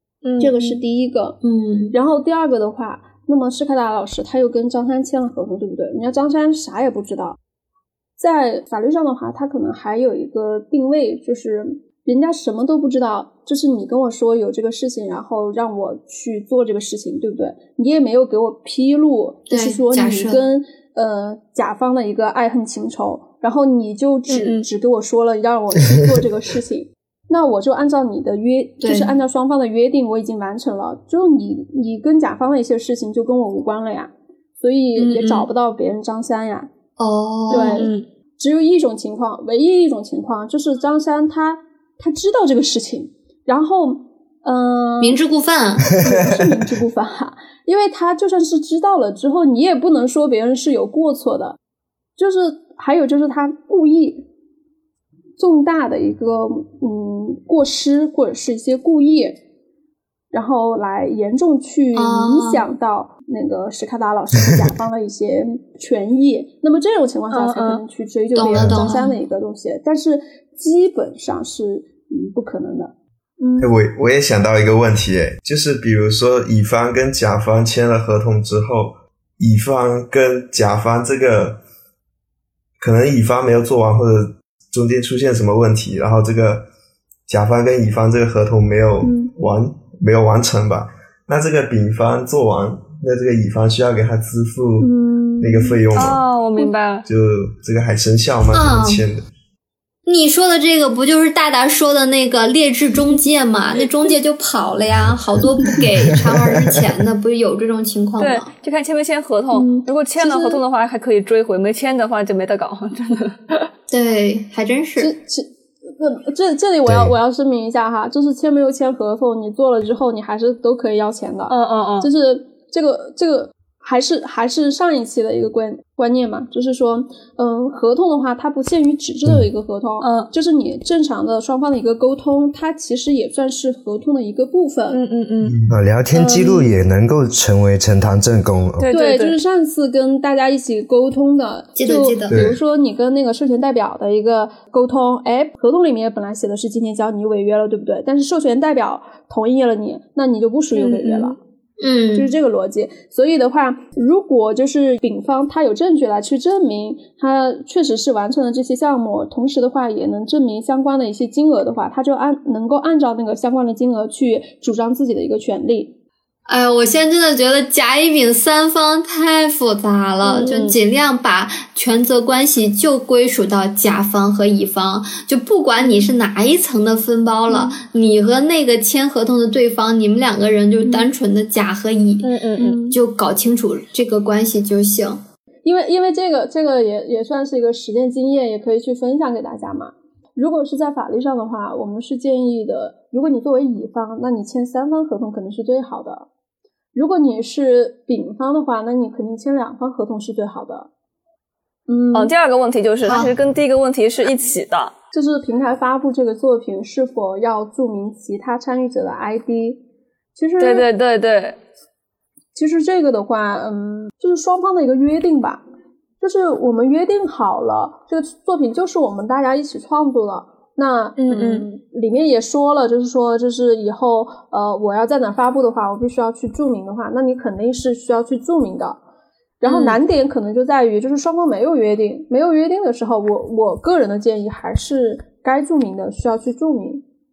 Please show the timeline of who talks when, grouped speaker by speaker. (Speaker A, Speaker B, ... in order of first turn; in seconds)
Speaker A: 0.2-0.8, 24.3-24.6, 35.0-35.5, 37.5-38.0, 67.3-67.8, 96.0-97.0, 108.2-113.7, 121.5-122.1, 130.0-130.3, 134.9-135.6, 136.1-136.7, 138.8-139.4, 150.7-151.4, 170.2-170.8, 182.2-182.8, 202.1-204.9, 210.6-211.6, 221.2-221.7, 229.6-230.0
Speaker B: 0.4-1.4, 1.9-7.4, 8.2-36.7, 37.5-45.2, 45.9-51.6, 52.2-54.2, 55.4-59.4, 60.3-73.7, 89.0-89.3, 94.8-96.7, 109.5-110.6, 115.0-135.0, 138.9-151.4, 152.1-165.9, 175.8-176.1, 182.6-183.0, 185.6-196.3, 196.9-200.9, 201.9-202.3, 205.1-209.8, 210.3-210.9, 212.5-215.6, 216.2-229.0, 229.6-237.0
Speaker C: 1.4-1.9, 19.5-20.4, 28.8-29.1, 37.0-37.9, 45.0-45.9, 61.9-62.6, 68.3-69.1, 98.5-99.0, 100.0-108.5, 113.9-115.1, 141.8-142.4, 151.8-152.3, 166.4-182.3, 182.9-185.2, 203.0-203.3
Speaker D: 46.0-46.8, 68.5-68.8, 105.8-106.7, 116.8-117.1, 135.7-138.9
Speaker E: 73.6-81.6, 82.8-86.7, 87.3-96.2, 97.0-99.3, 135.4-135.8, 142.3-142.6